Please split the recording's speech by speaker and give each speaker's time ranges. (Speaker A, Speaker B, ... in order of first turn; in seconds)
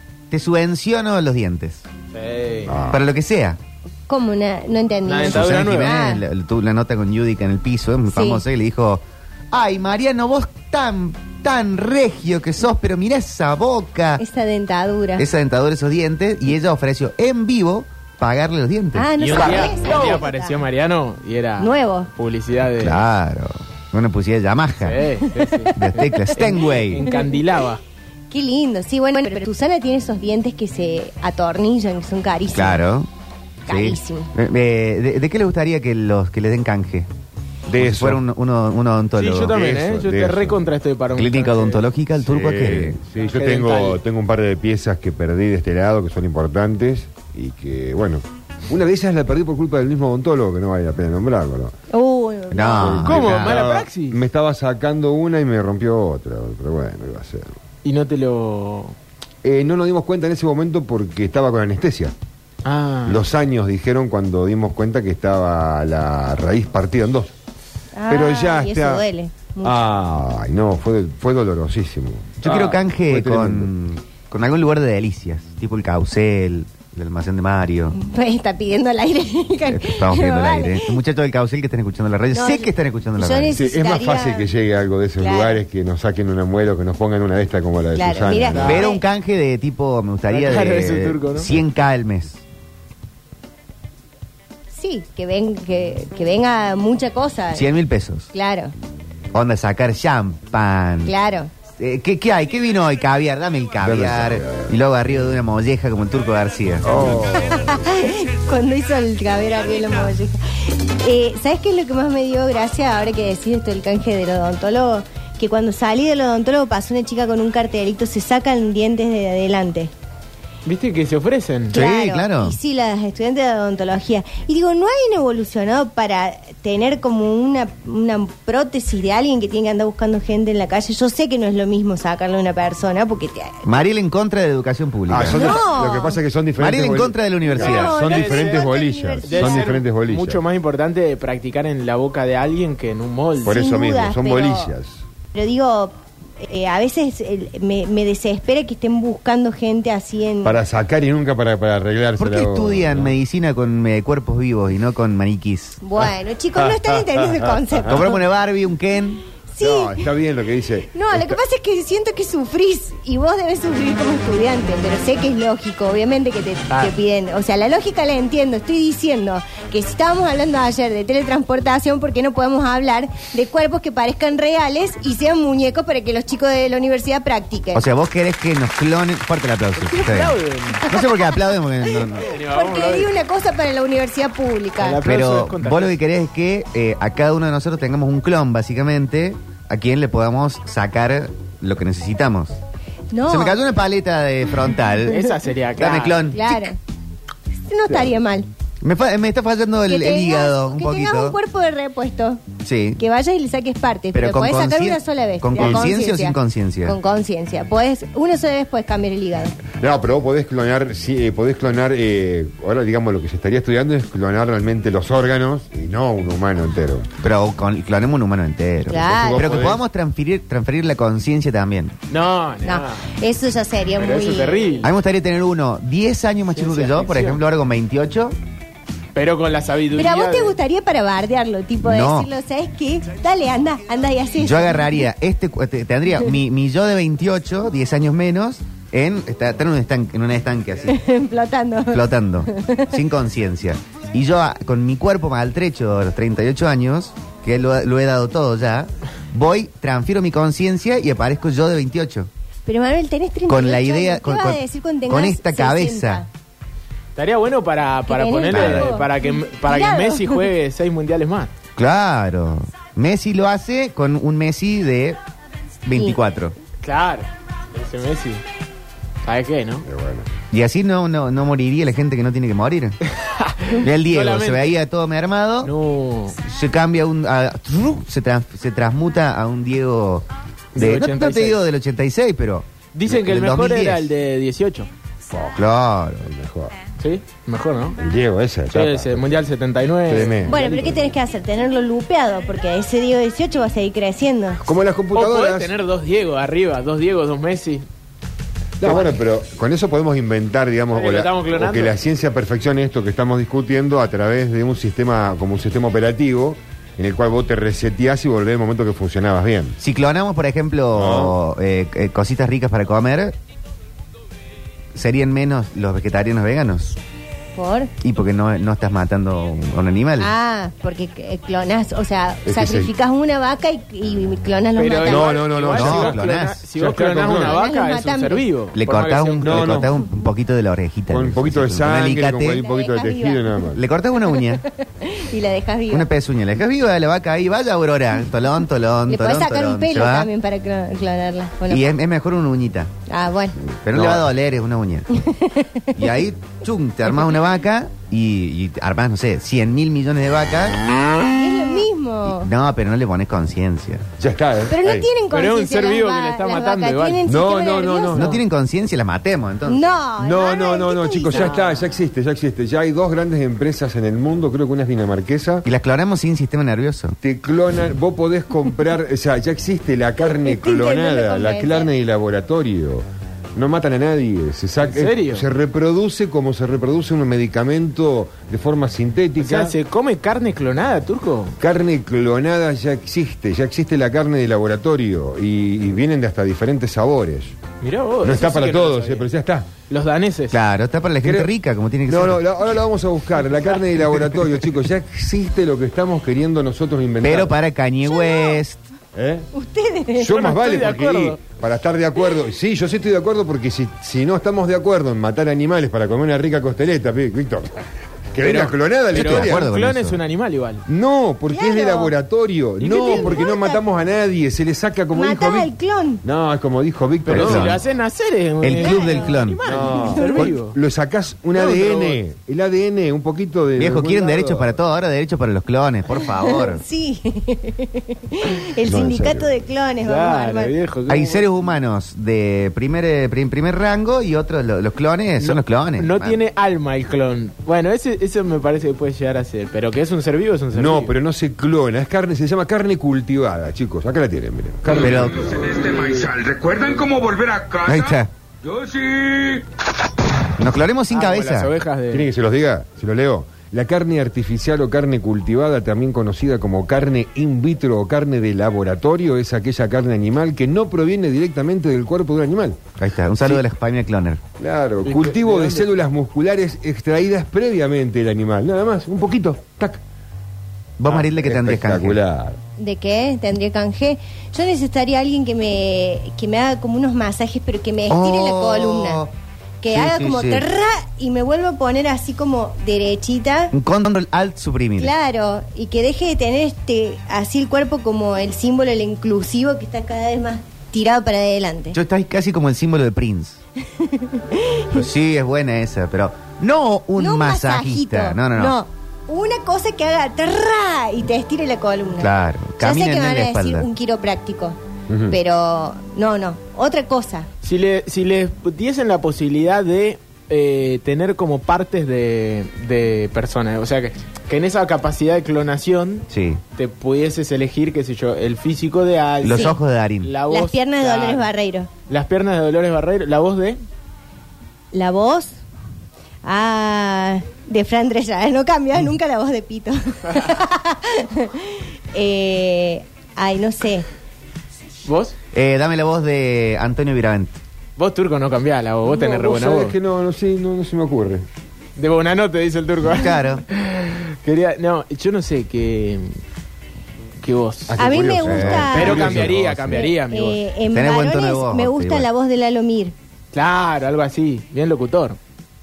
Speaker A: 0.3-1.8, 2.9-3.6, 5.2-14.2, 15.2-19.1, 22.8-25.0, 25.7-27.0, 32.5-33.1, 33.7-37.1, 37.6-39.6, 41.1-43.0, 52.5-53.7, 72.4-78.0, 79.7-83.6, 88.6-92.4, 97.5-98.3, 99.3-101.1, 101.8-107.2, 121.7-122.5, 133.6-135.5, 136.6-137.9, 152.2-155.8, 157.8-159.2, 177.7-182.3, 185.0-192.6, 193.2-196.7, 198.8-201.4, 202.6-203.0, 204.1-207.0, 217.2-221.9, 224.8-228.3, 231.8-232.3, 234.4-241.0, 241.9-252.3, 253.5-256.2, 261.8-265.2, 265.8-266.5, 270.5-273.0, 273.7-275.7, 276.4-284.1, 285.5-286.3, 309.8-313.4, 314.9-317.0, 318.0-320.3, 325.7-326.6, 328.7-332.6, 333.7-334.6, 335.9-340.3, 341.7-342.9, 343.8-345.1, 345.9-350.8, 352.2-354.1, 358.1-360.0, 365.6-367.2, 390.5-392.4, 397.2-398.8, 408.4-410.2, 417.3-417.8, 418.6-419.6, 423.8-426.8, 431.1-436.4, 444.9-445.6, 447.9-448.3, 450.6-451.7, 463.0-464.4, 471.0-472.2, 478.1-479.3, 479.9-480.6, 483.7-485.1, 491.9-493.6, 494.9-498.8, 502.2-503.9, 516.3-516.6, 519.4-520.3, 535.5-537.6, 543.0-543.6, 548.4-549.3, 550.9-552.3
Speaker B: 2.1-2.7, 5.0-6.0, 19.2-23.0, 24.8-27.8, 39.2-41.8, 43.2-44.0, 53.0-54.2, 57.8-58.9, 62.6-63.2, 88.5-88.8, 90.3-91.5, 120.6-121.8, 137.6-138.7, 139.2-143.6, 179.8-180.8, 182.2-183.1, 184.8-186.0, 195.1-196.2, 222.1-223.1, 224.0-224.9, 226.5-227.4, 229.1-230.6, 257.1-261.5, 266.8-268.4, 269.2-269.9, 273.1-274.8, 275.6-276.4, 280.7-281.6, 282.9-284.9, 287.0-288.0, 288.7-290.7, 295.1-297.9, 298.8-299.1, 300.9-301.9, 324.8-329.9, 355.3-357.3, 361.3-361.8, 374.8-375.5, 379.4-381.6, 387.8-389.3, 389.9-390.6, 400.3-401.4, 408.4-410.8, 417.2-420.8, 421.5-422.2, 430.0-431.4, 435.4-441.1, 451.1-452.3, 465.0-465.9, 507.6-521.5, 522.1-523.8, 535.0-535.3, 538.0-540.0, 542.0-546.4, 547.4-548.2, 548.9-550.6, 553.5-555.4
Speaker C: 2.6-3.0, 37.7-38.2, 39.5-40.6, 42.2-51.7, 52.8-57.6, 59.4-62.1, 63.0-67.3, 68.1-69.0, 69.6-73.7, 83.5-88.8, 103.8-104.7, 106.8-107.8, 135.1-140.4, 143.4-145.0, 150.4-153.1, 156.6-157.3, 159.6-161.3, 205.6-205.8, 209.8-217.1, 219.2-219.8, 269.8-270.3, 285.3-285.6, 286.2-286.7, 288.0-289.4, 290.1-291.1, 294.6-295.7, 298.8-309.8, 310.9-311.3, 322.4-322.9, 325.0-326.2, 326.7-327.6, 329.4-329.9, 331.1-333.8, 343.7-344.3, 354.2-355.1, 357.2-358.4, 360.2-365.6, 367.2-373.0, 373.5-379.7, 381.6-387.6, 388.2-389.7, 391.2-391.5, 392.1-397.5, 399.1-399.5, 400.2-407.8, 408.3-409.6, 410.9-415.7, 416.2-417.7, 419.6-424.7, 428.8-429.5, 440.7-445.7, 452.1-462.8, 464.6-470.0, 471.0-472.6, 505.1-505.4, 539.1-541.5, 547.9-550.1
Speaker D: 4.1-6.2, 8.1-8.4, 14.2-15.3, 18.9-20.6, 21.6-22.1, 25.3-27.4, 28.3-32.8, 33.7-34.3, 51.9-53.1, 67.9-69.7, 77.9-81.0, 82.3-84.5, 85.2-85.6, 87.9-89.0, 94.7-97.7, 98.3-98.7, 101.0-101.5, 107.3-119.9, 121.7-133.7, 135.2-136.2, 137.5-139.8, 143.4-144.7, 145.3-150.6, 155.8-158.2, 159.5-160.1, 160.9-177.8, 180.8-185.0, 193.1-193.6, 196.3-196.8, 197.6-198.5, 199.9-202.4, 203.0-209.6, 218.8-219.7, 222.6-224.8, 229.9-235.0, 240.9-242.9, 252.7-256.3, 258.1-260.4, 290.4-294.6, 317.5-317.9, 320.2-325.3, 327.3-328.4, 332.6-333.4, 334.4-336.1, 339.1-341.9, 343.1-343.6, 345.1-346.0, 351.3-352.5, 354.7-358.4, 359.7-361.6, 370.3-371.9, 398.0-398.6, 399.5-400.4, 411.5-412.1, 412.8-413.8, 415.1-416.2, 418.8-420.6, 426.4-430.7, 472.8-479.2, 479.8-483.7, 485.0-492.0, 493.9-495.0, 497.2-504.8, 505.3-507.5, 519.5-519.8, 520.5-521.9, 524.9-525.6, 526.4-534.0, 548.0-553.1
Speaker E: 444.9-449.6